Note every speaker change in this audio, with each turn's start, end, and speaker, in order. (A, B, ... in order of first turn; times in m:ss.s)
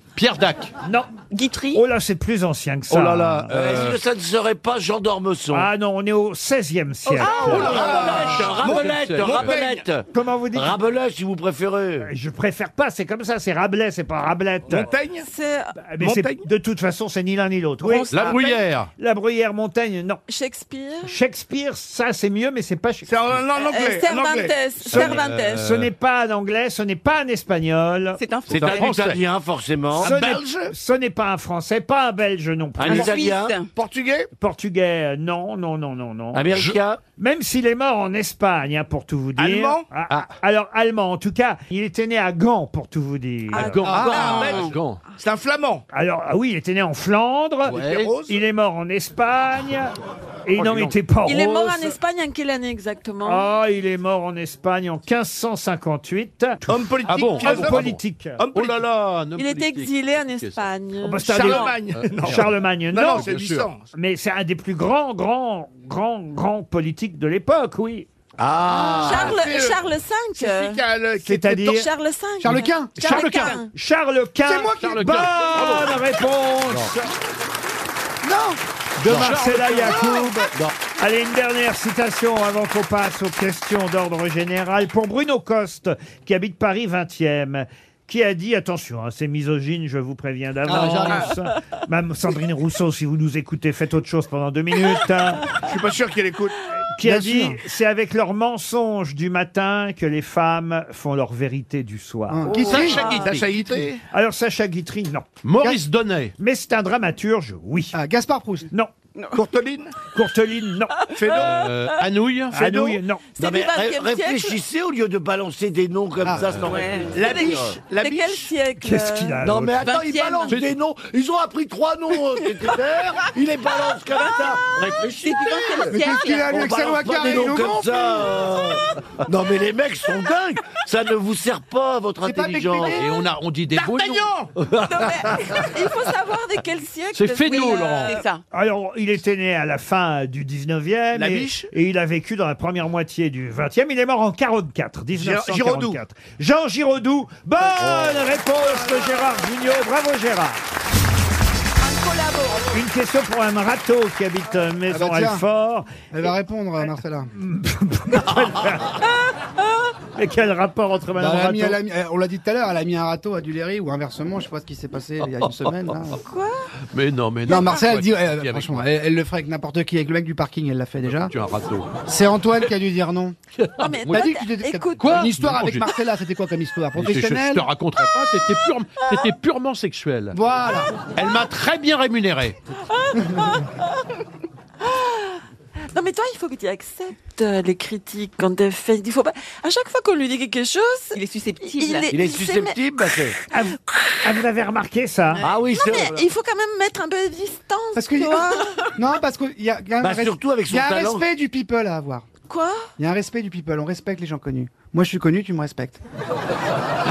0:00.2-0:00.7 A
0:00.8-0:01.1 B
0:01.3-0:01.8 C
0:01.7-0:03.9 B
0:02.9-0:04.0 A
0:03.5-0:05.7 D
0:05.5-0:07.9 B
0:07.1-0:07.8 C
0:07.2-0:09.8 E
0:07.2-0:12.1 D
0:08.2-0:09.6 A
0:10.1-0:10.8 B
0:12.0-0:14.9 B
0:14.7-0:15.3 E
0:15.2-0:15.8 F
0:15.8-0:18.4 B
0:16.0-0:16.4 E
0:17.8-0:18.7 C
0:18.1-0:18.9 A
0:19.0-0:20.2 B
0:20.3-0:21.1 F
0:21.1-0:23.1 B
0:23.0-0:24.6 E
0:23.6-0:25.7 F
0:24.9-0:25.9 A
0:24.9-0:28.2 B
0:28.2-0:28.9 C
0:28.5-0:29.2 A
0:28.5-0:30.2 D
0:30.0-0:30.7 E
0:30.0-0:33.2 B
0:32.8-0:33.6 D
0:32.9-0:33.7 C
0:33.7-0:34.3 E
0:34.4-0:36.5 B
0:36.3-0:37.0 D
0:37.2-0:43.9 B
0:39.4-0:39.9 E
0:43.5-0:45.0 A
0:43.6-0:44.7 C
0:43.9-0:44.3 G
0:43.9-0:45.8 E
0:45.9-0:49.9 B
0:47.7-0:48.1 A
0:47.8-0:48.4 E
0:50.5-0:51.9 B
0:50.6-0:51.0 A
0:51.2-0:53.5 F
0:53.2-0:56.7 B
0:56.7-0:58.9 E
0:57.1-0:58.0 A
0:57.2-0:58.4 B
0:58.5-1:00.6 A
0:59.4-1:01.8 F
1:01.0-1:03.4 B
1:01.3-1:03.8 E
1:01.9-1:03.7 A
1:03.9-1:08.1 B
1:08.4-1:09.4 D
1:08.7-1:09.8 E
1:09.0-1:10.8 F
1:10.4-1:11.8 E
1:11.2-1:11.9 B
1:11.6-1:13.7 F
1:12.4-1:13.4 G
1:13.0-1:13.5 A
1:13.7-1:17.0 B
1:14.4-1:15.0 G
1:14.8-1:16.0 A
1:16.7-1:17.0 A
1:18.2-1:18.6 G
1:19.0-1:35.5 B
1:19.0-1:20.7 A
1:30.7-1:31.1 G
1:30.8-1:31.0 A
1:35.6-1:36.6 E
1:37.0-1:42.5 B
1:37.0-1:37.6 G
1:42.3-1:43.2 G
1:42.6-1:43.9 A
1:42.6-1:44.0 E
1:44.1-1:45.8 B
1:45.4-1:46.3 A
1:46.4-1:48.0 B
1:47.9-1:48.7 G
1:49.2-1:49.4 C
1:49.3-1:49.9 E
1:50.1-1:51.0 B
1:51.2-1:51.8 E
1:51.3-1:53.0 A
1:52.5-1:53.2 B
1:53.4-1:54.6 F
1:53.4-1:57.8 D
1:56.2-1:56.6 G
1:56.6-1:57.2 C
1:57.1-1:58.5 E
1:57.2-1:59.4 F
1:58.8-1:59.9 B
1:59.4-2:13.0 D
1:59.8-2:00.6 C
2:05.2-2:06.6 C
2:05.9-2:08.5 G
2:12.2-2:13.1 G
2:12.9-2:14.4 A
2:13.7-2:14.6 E
2:14.8-2:18.3 F
2:17.1-2:18.2 A
2:17.4-2:18.4 C
2:18.5-2:30.6 B
2:21.2-2:21.7 E
2:25.2-2:26.0 E
2:31.8-2:32.7 F
2:32.7-2:35.9 B
2:34.9-2:35.4 G
2:36.1-2:37.3 G
2:37.3-2:39.0 B
2:40.2-2:41.8 B
2:41.2-2:46.2 G
2:46.2-2:46.7 F
2:46.9-2:48.9 A
2:47.5-2:51.3 G
2:51.1-2:51.9 A
2:52.1-2:53.4 G
2:53.6-2:54.3 A
2:53.8-2:55.7 F
2:54.1-2:57.7 G
2:55.0-2:55.9 A
2:57.0-3:00.4 A
3:00.3-3:00.9 G
3:01.1-3:02.6 A
3:03.0-3:03.7 F
3:04.8-3:05.4 F
3:05.9-3:12.8 F
3:11.1-3:12.1 C
3:12.1-3:13.4 D
3:13.5-3:15.5 B
3:15.4-3:16.2 D
3:15.7-3:18.7 F
3:17.9-3:22.3 G
3:20.0-3:21.3 D
3:22.5-3:22.9 F
3:23.0-3:26.0 G